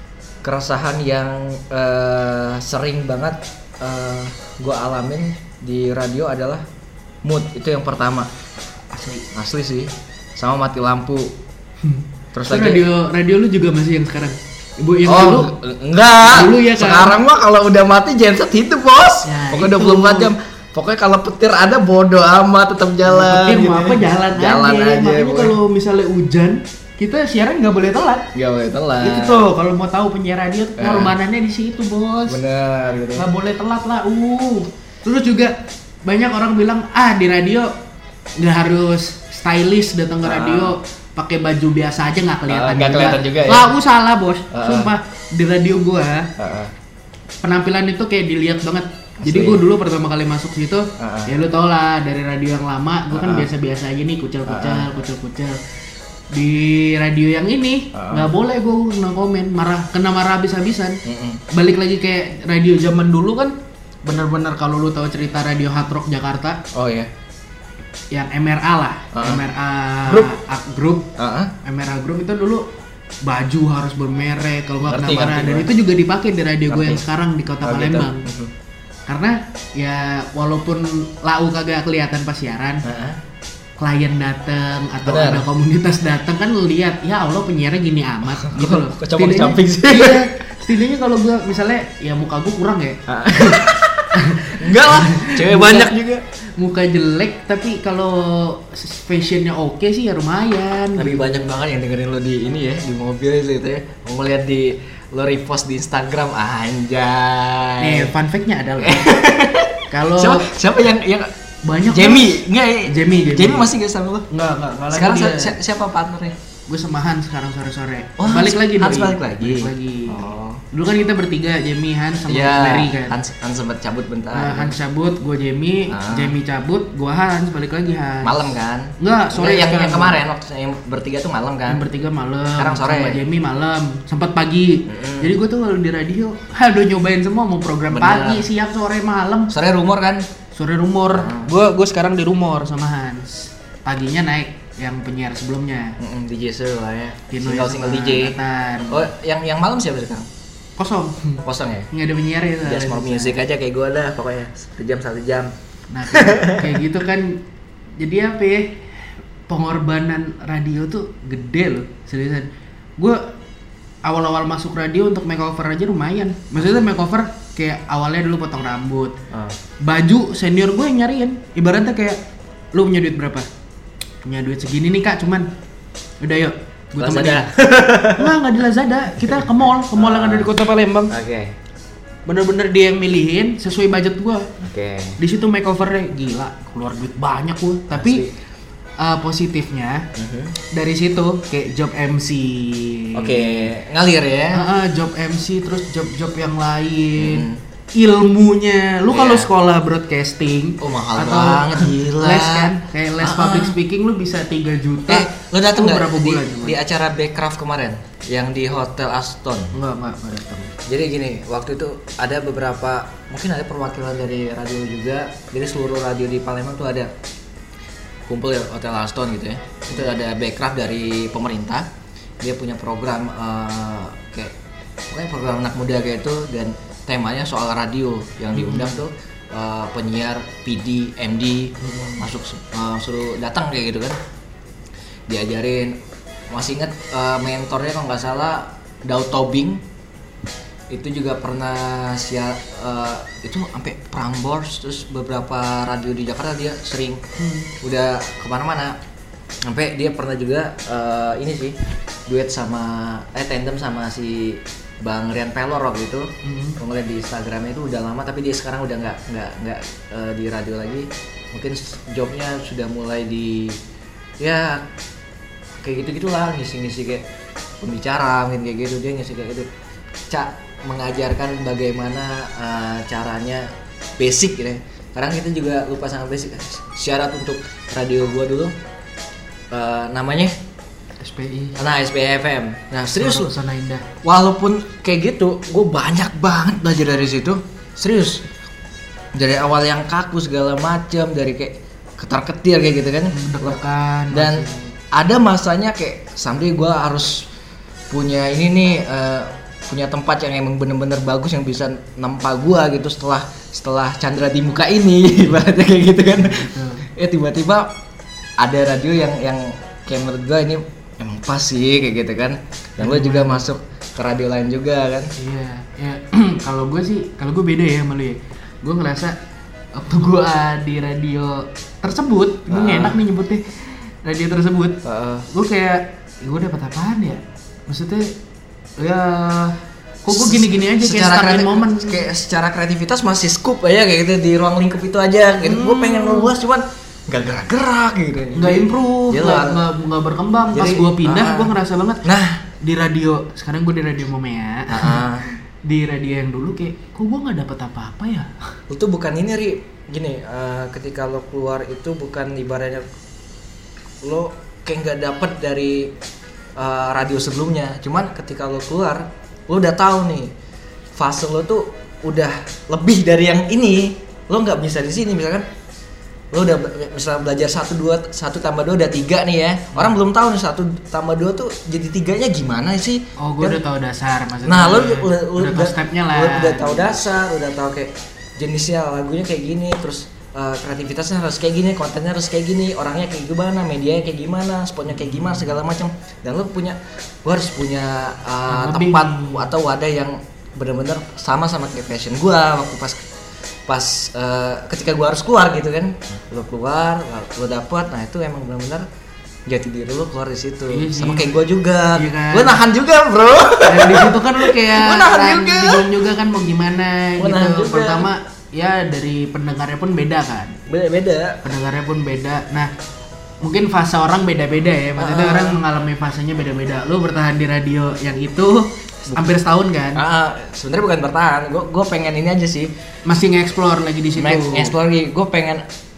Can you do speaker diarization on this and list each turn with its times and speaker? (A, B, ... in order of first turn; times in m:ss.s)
0:00.4-0:06.6 A
0:07.2-0:08.3 A
0:08.9-0:09.3 B
0:09.3-0:11.4 A
0:11.8-0:15.5 B
0:12.3-0:12.8 A
0:15.0-0:25.6 A
0:16.2-0:17.2 B
0:19.2-0:20.3 B
0:23.0-0:28.3 B
0:28.3-0:29.4 A
0:29.0-0:32.4 B
0:30.8-0:31.1 A
0:32.3-0:33.2 A
0:33.1-0:37.7 B
0:38.4-0:46.3 B
0:40.2-0:40.8 A
0:42.5-0:43.7 A
0:44.5-0:44.9 A
0:46.4-0:46.7 A
0:47.4-0:55.6 B
0:49.2-0:49.6 A
0:51.0-0:51.3 A
0:53.1-0:53.5 A
0:54.5-0:54.9 A
0:56.3-1:01.0 B
0:57.9-0:58.3 A
1:01.0-1:01.4 A
1:01.5-1:06.6 B
1:06.7-1:07.1 A
1:08.1-1:11.1 B
1:09.1-1:09.4 A
1:10.0-1:10.3 A
1:11.2-1:11.5 A
1:11.6-1:12.7 B
1:13.2-1:18.2 B
1:14.8-1:15.7 A
1:16.7-1:17.0 A
1:17.6-1:18.5 A
1:19.1-1:22.8 B
1:22.8-1:23.2 A
1:23.8-1:35.9 B
1:25.0-1:25.4 A
1:28.4-1:30.3 A
1:33.1-1:36.2 A
1:36.6-1:41.2 B
1:41.0-1:48.1 A
1:47.8-1:49.1 B
1:48.8-1:51.3 A
1:49.9-1:50.5 B
1:51.6-1:53.7 B
1:51.9-1:54.3 A
1:54.3-1:55.6 B
1:54.9-1:56.4 A
1:56.7-2:03.2 B
1:58.2-2:00.6 A
2:02.3-2:04.7 A
2:04.3-2:08.5 B
2:05.9-2:06.3 A
2:08.2-2:11.8 A
2:09.0-2:10.2 B
2:11.7-2:19.5 B
2:12.6-2:13.2 A
2:14.8-2:15.4 A
2:17.9-2:18.4 A
2:19.5-2:20.2 A
2:20.5-2:26.0 B
2:21.1-2:21.5 A
2:26.0-2:28.4 A
2:27.3-2:29.0 B
2:28.9-2:30.3 A
2:30.8-2:33.4 B
2:31.4-2:31.9 A
2:32.6-2:35.5 A
2:35.9-2:37.4 B
2:36.1-2:36.8 A
2:38.0-2:38.8 B
2:39.5-2:43.2 B
2:44.0-2:49.2 B
2:46.6-2:46.9 A
2:49.3-2:49.6 A
2:49.8-2:52.2 B
2:52.7-2:53.5 B
2:54.2-2:55.5 B
2:56.2-2:57.5 B
2:57.0-2:58.3 A
2:58.0-3:01.1 B
2:59.2-3:00.5 A
3:01.1-3:01.5 A
3:02.2-3:04.5 B
3:04.6-3:05.2 A
3:05.2-3:08.2 B
3:07.9-3:08.3 A
3:09.0-3:10.0 B
3:10.1-3:10.6 A
3:10.6-3:13.7 B
3:13.1-3:14.6 A
3:14.5-3:26.8 B
3:17.2-3:17.6 A
3:19.1-3:19.5 A
3:20.8-3:23.8 A
3:25.1-3:29.8 A
3:29.7-3:30.7 B
3:30.8-3:37.1 A
3:38.3-3:41.9 A
3:42.4-3:44.5 A
3:45.1-3:54.2 A
3:48.5-3:49.0 B
3:51.8-3:52.2 B
3:55.3-3:56.0 A
3:56.5-3:59.8 A
4:00.9-4:07.2 A
4:07.4-4:07.7 B
4:07.8-4:09.0 A
4:09.6-4:23.8 A
4:16.4-4:16.8 B
4:24.4-4:24.8 A
4:25.8-4:27.2 A
4:27.8-4:29.7 A
4:30.3-4:38.7 A
4:39.7-4:40.5 A
4:41.2-4:41.8 B
4:41.8-4:43.5 A
4:43.1-4:44.1 B
4:44.2-4:48.4 A
4:49.3-4:53.8 A
4:53.3-4:54.9 B
4:54.3-4:57.5 A
4:58.1-5:07.9 A
5:06.3-5:07.0 B
5:08.6-5:15.3 A
5:13.0-5:13.6 B
5:15.4-5:19.4 B
5:19.9-5:28.4 B
5:22.7-5:23.2 A
5:25.0-5:25.5 A
5:29.0-5:32.2 B
5:30.3-5:39.8 A
5:35.6-5:36.5 B
5:38.5-5:42.2 B
5:40.7-5:41.7 A
5:42.2-5:42.6 A
5:42.8-5:45.3 B
5:44.9-5:45.5 A
5:45.8-5:48.6 B
5:48.9-5:53.0 A
5:54.2-5:56.1 A
5:56.8-6:00.5 A
6:01.1-6:05.6 A
6:06.5-6:13.8 A
6:13.4-6:17.2 B
6:14.6-6:33.2 A
6:25.1-6:25.8 B
6:28.7-6:29.7 B
6:33.9-6:39.0 A
6:39.7-6:46.1 A
6:40.9-6:41.6 B
6:42.1-6:42.8 B
6:43.9-6:50.8 B
6:47.4-6:48.3 A
6:50.9-6:51.6 A
6:51.6-6:52.9 B
6:53.6-7:00.2 B
6:55.2-6:55.8 A
7:00.2-7:02.9 A
7:03.2-7:04.9 B
7:04.4-7:05.8 A